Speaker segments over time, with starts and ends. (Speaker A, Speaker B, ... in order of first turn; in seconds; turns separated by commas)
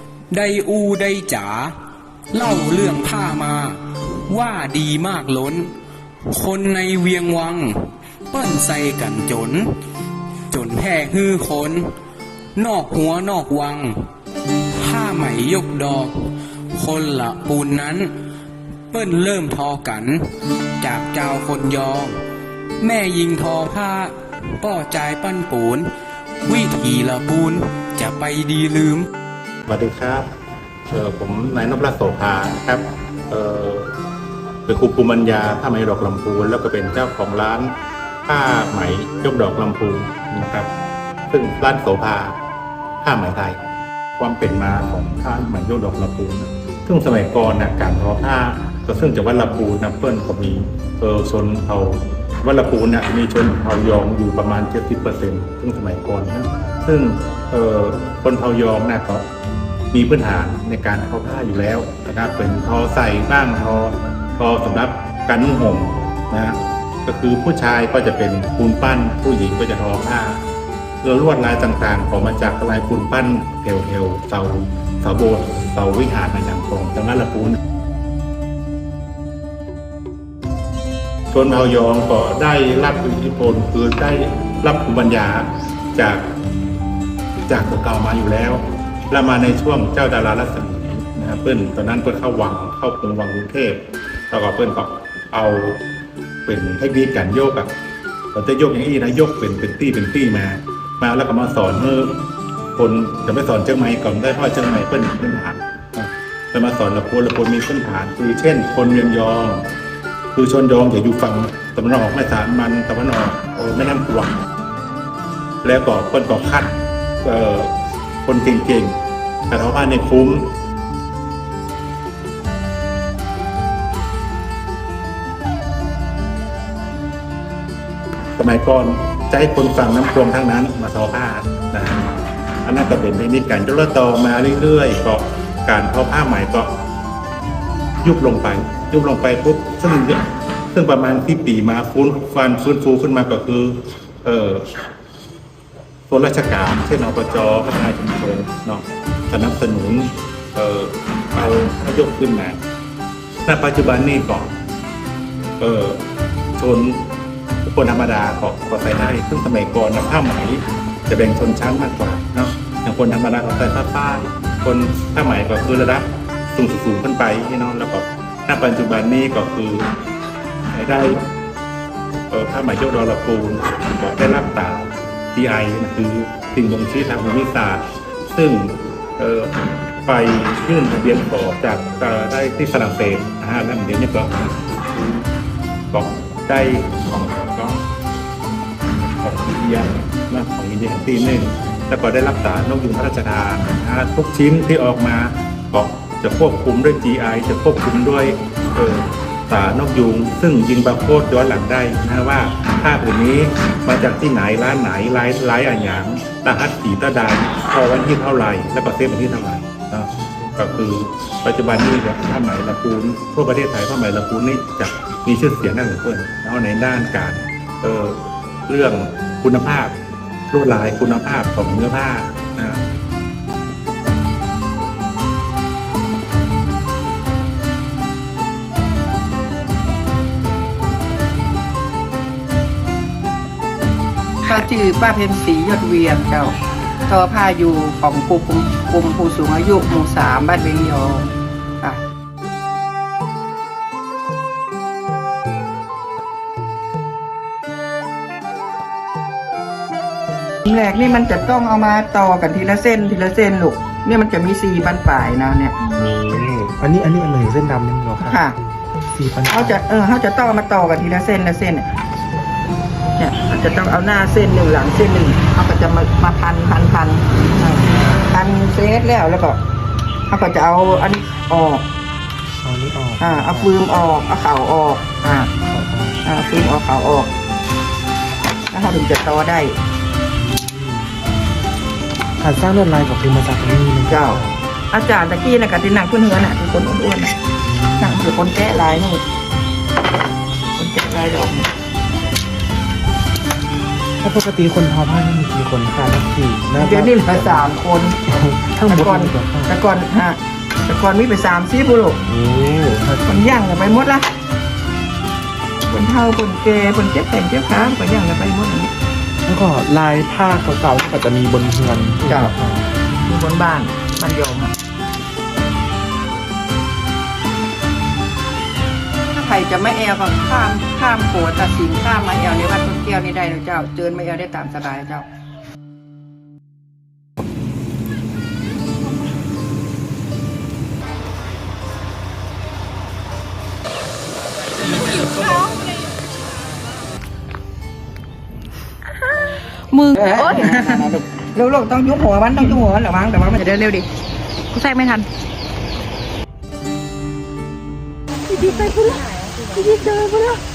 Speaker A: 0.3-1.7, Speaker A: 2.3-5.7, Speaker A: 6.3-7.7, Speaker A: 8.3-9.6, Speaker A: 10.5-11.8, Speaker A: 12.6-13.9, Speaker A: 14.8-16.1, Speaker A: 16.7-18.1, Speaker A: 18.9-20.2, Speaker A: 20.8-22.1, Speaker A: 22.8-25.9, Speaker A: 26.4-29.1, Speaker B: 29.7-30.3, Speaker B: 30.9-33.9, Speaker B: 34.6-37.7, Speaker B: 38.3-40.7, Speaker B: 41.3-42.4, Speaker B: 43.0-43.6, Speaker B: 44.2-59.3, Speaker B: 59.9-70.4, Speaker B: 71.0-77.6, Speaker B: 81.3-86.2, Speaker B: 87.5-95.8, Speaker B: 96.5-97.7, Speaker B: 98.3-102.2, Speaker B: 102.8-109.6, Speaker B: 110.3-114.3, Speaker B: 115.6-117.7, Speaker B: 118.2-119.0, Speaker B: 119.5-120.5, Speaker B: 128.4-132.1, Speaker B: 132.6-136.7, Speaker B: 138.0-140.2, Speaker B: 140.7-144.7, Speaker B: 146.1-152.6, Speaker B: 153.4-154.5, Speaker B: 155.6-156.0, Speaker B: 156.6-157.0, Speaker B: 157.6-169.9, Speaker B: 170.7-171.2, Speaker B: 172.3-179.5, Speaker B: 180.0-185.2, Speaker B: 185.9-187.8, Speaker B: 189.1-219.9, Speaker B: 220.5-222.8, Speaker C: 234.4-236.5, Speaker C: 237.1-242.0, Speaker C: 250.7-255.8, Speaker D: 255.9-258.4, Speaker C: 258.2-258.6, Speaker D: 259.1-259.8, Speaker C: 259.5-261.9, Speaker C: 263.2-267.2, Speaker D: 267.6-268.2, Speaker C: 268.3-269.6, Speaker C: 270.3-271.8, Speaker D: 272.6-273.7, Speaker C: 273.2-275.5, Speaker D: 275.6-276.2, Speaker C: 276.2-277.3, Speaker C: 278.7-279.7, Speaker D: 280.4-281.1, Speaker D: 282.4-284.6, Speaker C: 284.1-284.4, Speaker C: 284.9-287.3, Speaker D: 287.6-288.2, Speaker C: 288.0-289.2, Speaker C: 290.8-291.7, Speaker D: 294.2-297.6, Speaker C: 296.8-298.2, Speaker D: 298.3-299.7, Speaker C: 298.9-302.2, Speaker D: 302.3-303.4, Speaker C: 303.2-304.2, Speaker C: 305.9-308.9, Speaker D: 309.4-312.8, Speaker C: 312.3-312.5, Speaker C: 313.3-314.7, Speaker C: 319.3-325.2, Speaker E: 339.9-340.6, Speaker C: 340.1-343.9, Speaker E: 343.7-344.0, Speaker E: 344.7-345.2, Speaker C: 348.5-350.6, Speaker E: 348.5-350.1